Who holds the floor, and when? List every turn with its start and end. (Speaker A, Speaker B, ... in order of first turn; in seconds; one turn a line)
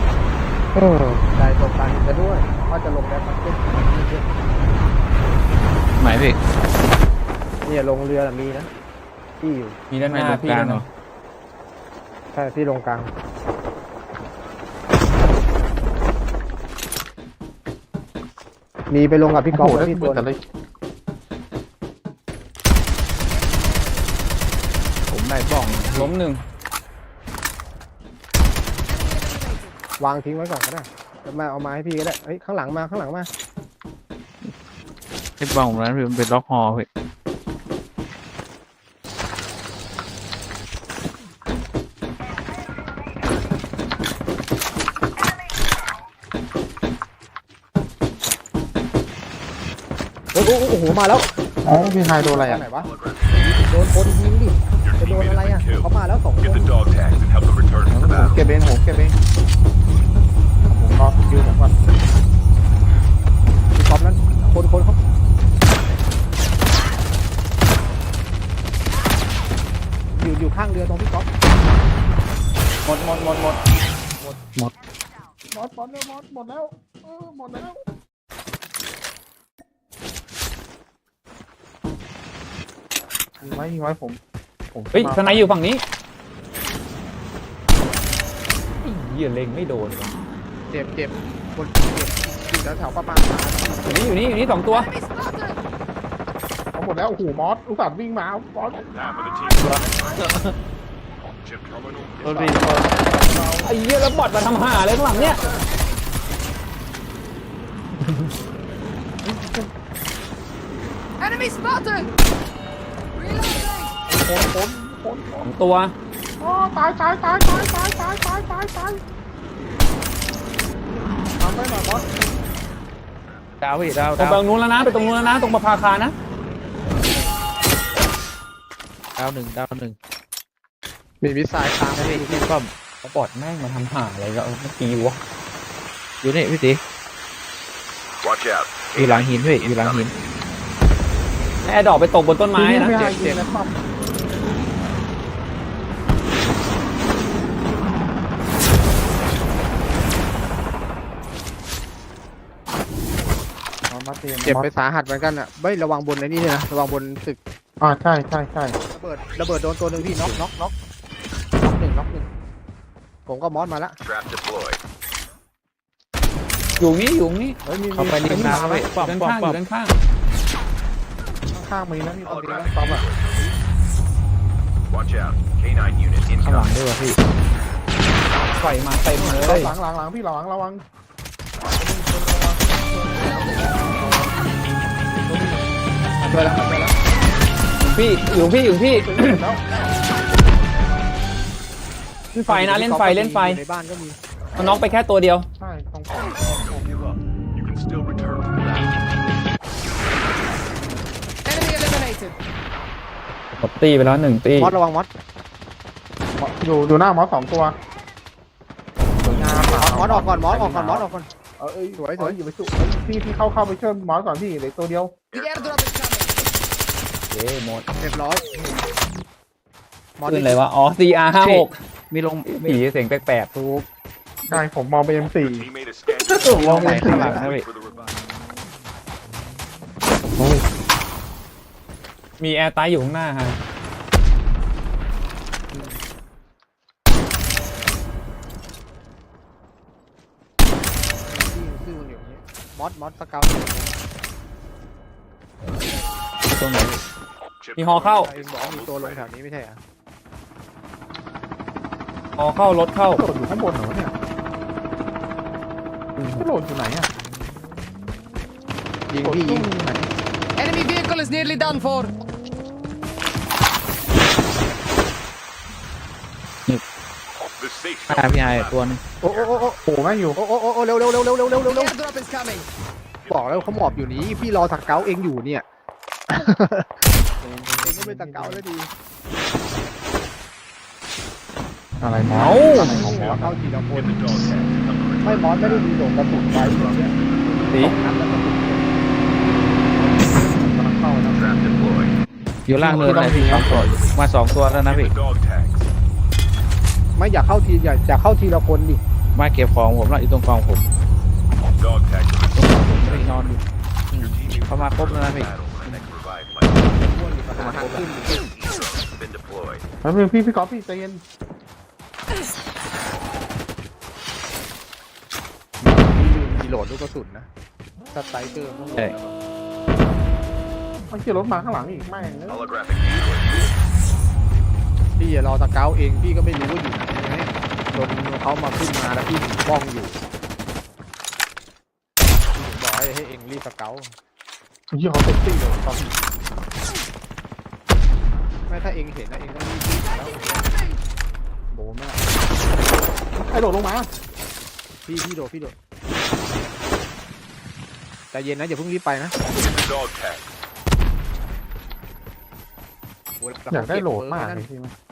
Speaker A: 0.8-4.3
Speaker B: 6.0-6.4
Speaker A: 7.7-8.7
Speaker A: 9.4-9.8
Speaker C: 9.9-10.9
Speaker B: 10.1-10.8
Speaker A: 12.3-13.1
Speaker A: 18.9-20.3
Speaker D: 19.5-20.4
Speaker B: 25.1-26.1
Speaker C: 25.9-26.4
Speaker A: 30.0-33.3
Speaker B: 35.4-36.9
Speaker A: 50.3-51.3
Speaker D: 51.6-52.6
Speaker A: 52.1-52.9
Speaker E: 52.8-53.5
Speaker A: 53.4-56.7
Speaker E: 54.8-55.9
Speaker E: 56.4-58.4
Speaker D: 57.9-59.2
Speaker D: 60.7-61.7
Speaker A: 63.8-65.0
Speaker A: 70.1-71.3
Speaker C: 72.9-73.6
Speaker D: 75.5-77.8
Speaker D: 83.4-84.2
Speaker D: 84.7-85.6
Speaker C: 84.9-85.8
Speaker C: 88.8-90.1
Speaker A: 90.7-94.1
Speaker C: 93.8-95.0
Speaker F: 95.0-95.4
Speaker D: 96.7-98.9
Speaker E: 98.9-100.1
Speaker B: 99.6-100.5
Speaker E: 101.4-102.8
Speaker B: 102.2-103.0
Speaker D: 102.3-103.8
Speaker C: 103.6-105.4
Speaker D: 105.1-105.6
Speaker D: 109.2-109.7
Speaker F: 111.3-112.1
Speaker F: 113.2-113.7
Speaker D: 114.1-115.5
Speaker C: 115.4-116.0
Speaker D: 116.4-119.0
Speaker D: 121.4-122.1
Speaker B: 123.6-124.4
Speaker C: 124.2-126.2
Speaker B: 129.2-130.0
Speaker A: 131.2-132.5
Speaker B: 131.9-132.7
Speaker C: 133.0-135.2
Speaker B: 136.2-136.8
Speaker E: 138.2-140.2
Speaker B: 139.0-140.1
Speaker C: 141.7-143.0
Speaker D: 142.5-143.8
Speaker D: 153.9-154.7
Speaker A: 154.4-157.4
Speaker D: 157.8-158.8
Speaker A: 158.9-160.7
Speaker A: 161.6-162.3
Speaker A: 163.3-164.0
Speaker E: 164.0-164.8
Speaker C: 166.8-167.6
Speaker D: 167.6-168.9
Speaker B: 167.9-169.6
Speaker C: 168.5-170.0
Speaker D: 171.5-173.0
Speaker E: 172.2-173.6
Speaker A: 172.3-173.0
Speaker E: 174.9-176.8
Speaker B: 176.4-177.2
Speaker C: 178.5-179.7
Speaker D: 179.2-180.8
Speaker D: 181.6-184.3
Speaker D: 185.1-185.7
Speaker A: 186.2-187.0
Speaker C: 187.8-189.4
Speaker D: 188.9-189.8
Speaker C: 192.3-193.6
Speaker A: 192.5-194.2
Speaker C: 194.6-195.5
Speaker D: 195.6-196.9
Speaker E: 196.5-199.1
Speaker F: 201.6-202.3
Speaker C: 203.5-204.8
Speaker A: 204.6-205.1
Speaker D: 206.4-207.8
Speaker D: 209.2-215.2
Speaker A: 209.8-211.3
Speaker A: 212.0-212.4
Speaker E: 215.3-215.8
Speaker F: 215.4-216.1
Speaker C: 217.3-217.9
Speaker A: 217.9-218.4
Speaker A: 220.2-220.6
Speaker C: 220.3-221.8
Speaker B: 221.4-222.8
Speaker C: 222.5-223.5
Speaker A: 223.5-223.9
Speaker D: 224.5-225.7
Speaker E: 225.3-228.1
Speaker D: 226.2-227.4
Speaker B: 226.6-227.7
Speaker A: 226.7-227.4
Speaker D: 230.2-230.6
Speaker C: 232.4-233.6
Speaker A: 235.7-236.0
Speaker A: 241.2-244.0
Speaker B: 246.5-247.0
Speaker E: 247.6-249.3
Speaker C: 247.8-248.3
Speaker A: 248.0-249.8
Speaker C: 252.4-253.2
Speaker D: 253.1-254.1
Speaker D: 256.3-257.1
Speaker A: 259.1-259.7
Speaker D: 259.2-260.1
Speaker F: 260.6-262.1
Speaker E: 267.6-269.7
Speaker B: 268.1-269.0
Speaker A: 269.2-269.8
Speaker D: 269.9-270.4
Speaker A: 270.4-272.0
Speaker F: 272.0-272.7
Speaker E: 273.2-275.1
Speaker A: 273.3-275.6
Speaker A: 276.3-276.9
Speaker D: 277.4-278.6
Speaker A: 277.8-278.9
Speaker D: 282.0-283.6
Speaker C: 282.3-283.1
Speaker A: 282.7-284.7
Speaker E: 283.9-287.9
Speaker A: 285.2-287.1
Speaker C: 287.7-288.0
Speaker A: 287.8-289.2
Speaker A: 289.9-291.4
Speaker E: 291.3-292.2
Speaker B: 292.7-295.1
Speaker D: 292.8-293.9
Speaker E: 292.9-295.9
Speaker A: 297.2-299.0
Speaker B: 299.4-300.8
Speaker E: 301.7-303.5
Speaker B: 302.6-303.6
Speaker E: 304.1-307.0
Speaker B: 304.7-305.5
Speaker A: 306.7-308.4
Speaker B: 307.6-308.1
Speaker E: 308.0-309.8
Speaker D: 310.0-311.2
Speaker A: 315.8-317.5
Speaker A: 318.1-319.4
Speaker D: 321.1-322.6
Speaker E: 322.5-323.8
Speaker A: 325.2-330.2
Speaker A: 332.6-334.1
Speaker D: 334.9-336.2
Speaker A: 338.7-340.6
Speaker D: 340.2-340.7
Speaker D: 341.7-342.3
Speaker D: 343.4-344.1
Speaker A: 345.1-345.8
Speaker A: 348.3-349.4
Speaker E: 349.5-350.5
Speaker A: 353.4-354.6
Speaker D: 353.7-354.9